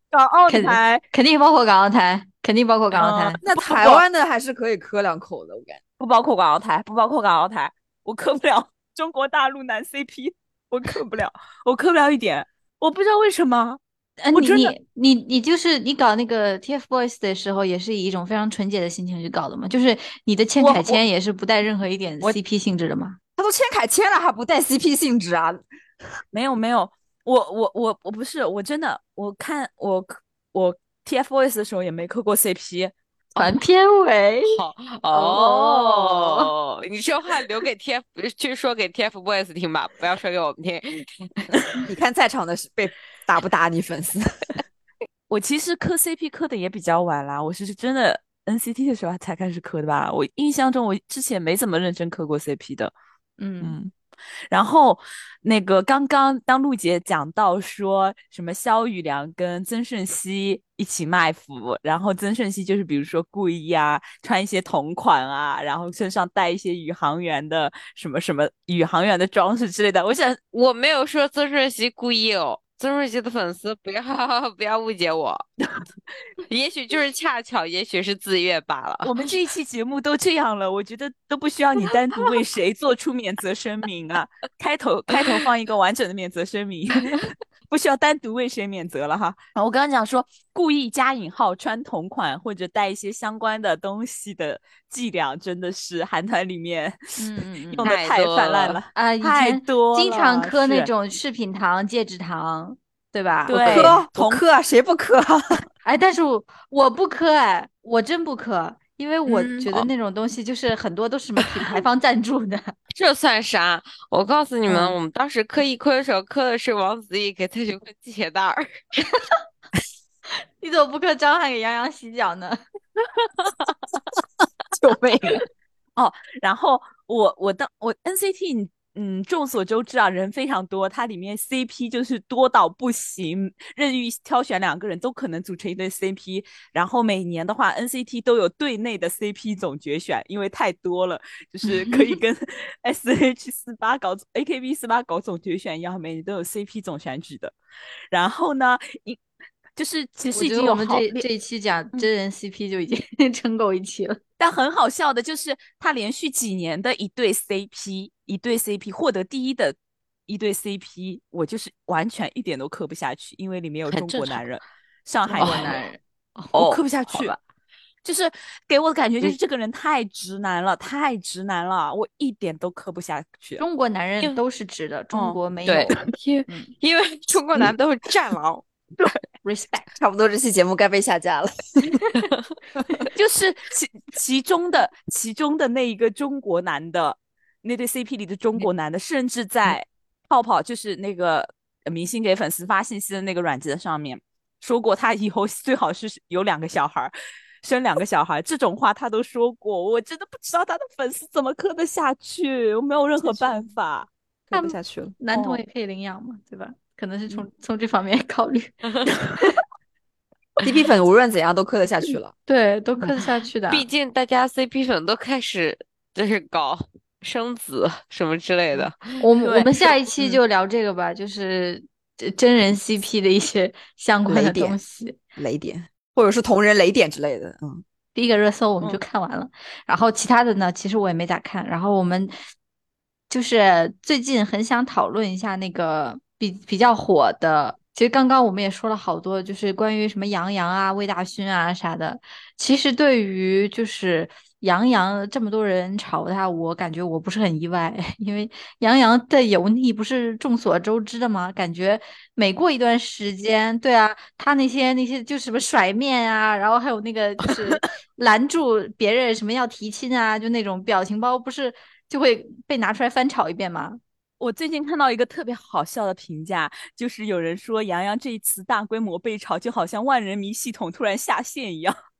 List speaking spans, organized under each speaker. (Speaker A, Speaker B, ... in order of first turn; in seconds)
Speaker A: 0.1-1.0, 2.9-4.0, 6.0-13.8, 14.3-14.7, 20.6-21.0, 26.3-32.9, 45.3-52.9, 53.6-53.9, 54.5-70.4, 79.0-97.0, 97.7-100.9, 103.5-104.4, 126.0-147.5, 148.1-149.2, 149.8-151.2, 154.4-159.8, 160.3-165.8, 166.5-167.4, 168.0-173.6, 175.1-175.4, 183.1-197.1, 197.6-204.1, 205.3-205.6, 219.4-219.7, 264.4-271.9
Speaker B: 0.5-3.4, 14.2-23.2, 33.4-36.5, 53.4-53.8, 97.2-97.9, 98.9-104.0, 105.8-112.7, 120.6-122.6, 141.7-142.1, 150.3-154.2, 165.3-166.6, 173.6-175.9, 176.5-176.7, 179.4-179.9, 204.5-208.7, 212.4-213.9, 219.2-225.2, 228.1-232.3, 233.3-264.0
Speaker C: 3.4-5.8, 23.4-25.6, 41.9-44.2, 103.7-105.6, 124.7-125.4, 180.0-181.9, 204.5-205.1, 210.6-212.3, 224.3-224.8, 225.4-227.8
Speaker D: 34.5-41.5, 70.5-75.5, 76.5-79.3, 97.8-98.8, 109.5-109.9, 112.9-118.7, 163.9-164.4, 165.4-165.8, 166.5-167.3, 175.7-178.6, 213.1-219.2